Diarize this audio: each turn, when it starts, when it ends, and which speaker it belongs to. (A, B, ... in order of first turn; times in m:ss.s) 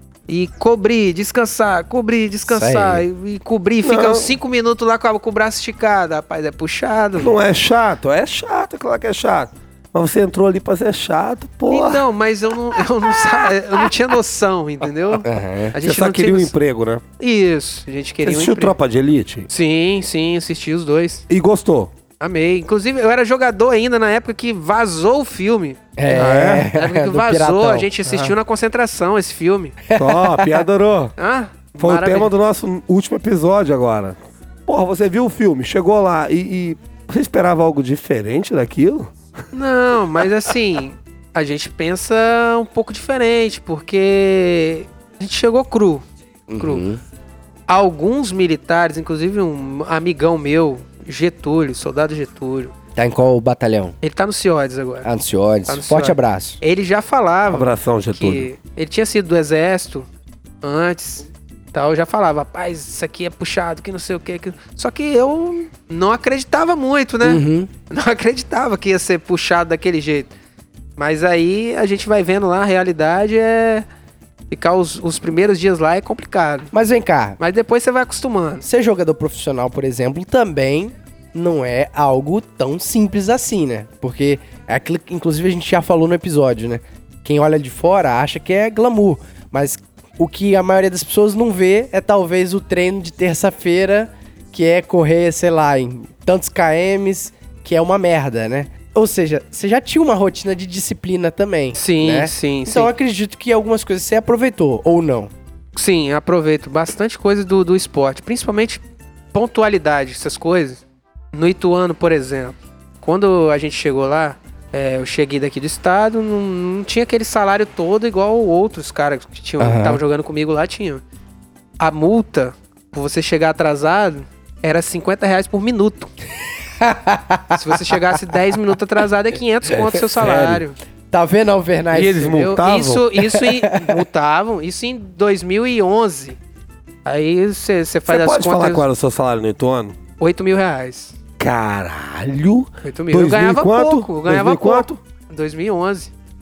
0:00.3-0:07.3 A
0:02.5-0:03.0 B
0:03.8-0:04.3 C
0:07.2-0:12.0 C
0:11.7-0:16.5 A
0:15.2-0:15.7 B
0:15.8-0:17.0 C
0:17.2-0:18.7 A
0:18.2-0:19.5 C
0:19.5-0:21.2 A
0:21.3-0:21.9 C
0:22.2-0:29.8 A
0:26.0-0:28.0 B
0:26.1-0:26.7 C
0:29.9-0:30.6 B
0:29.9-0:31.1 C
0:31.2-0:32.3 A
0:31.8-0:39.1 C
0:39.5-0:46.0 A
0:46.5-0:47.0 B
0:46.6-0:46.8 A
0:47.7-0:52.7 A
0:53.0-0:53.9 B
0:54.0-0:55.1 A
0:55.0-0:56.6 B
0:55.7-1:00.0 A
0:57.5-0:58.5 C
1:00.6-1:10.3 A
1:07.2-1:07.7 B
1:11.0-1:13.8 A
1:14.5-1:16.7 A
1:16.7-1:17.4 B
1:17.4-1:18.6 A
1:18.6-1:45.3 B
1:41.8-1:42.9 A
1:45.8-1:48.8 A
1:49.3-1:50.8 A
1:51.3-2:01.0 A
1:59.6-2:00.0 B
2:01.8-2:06.1 A
2:06.8-2:08.0 B
2:07.6-2:10.8 A
2:10.1-2:10.6 C
2:11.1-2:12.4 B
2:11.9-2:13.1 C
2:12.1-2:16.4 A
2:13.2-2:14.0 B
2:17.0-2:18.8 A
2:18.1-2:20.0 C
2:20.2-2:21.2 A
2:21.4-2:25.0 C
2:22.8-2:26.1 A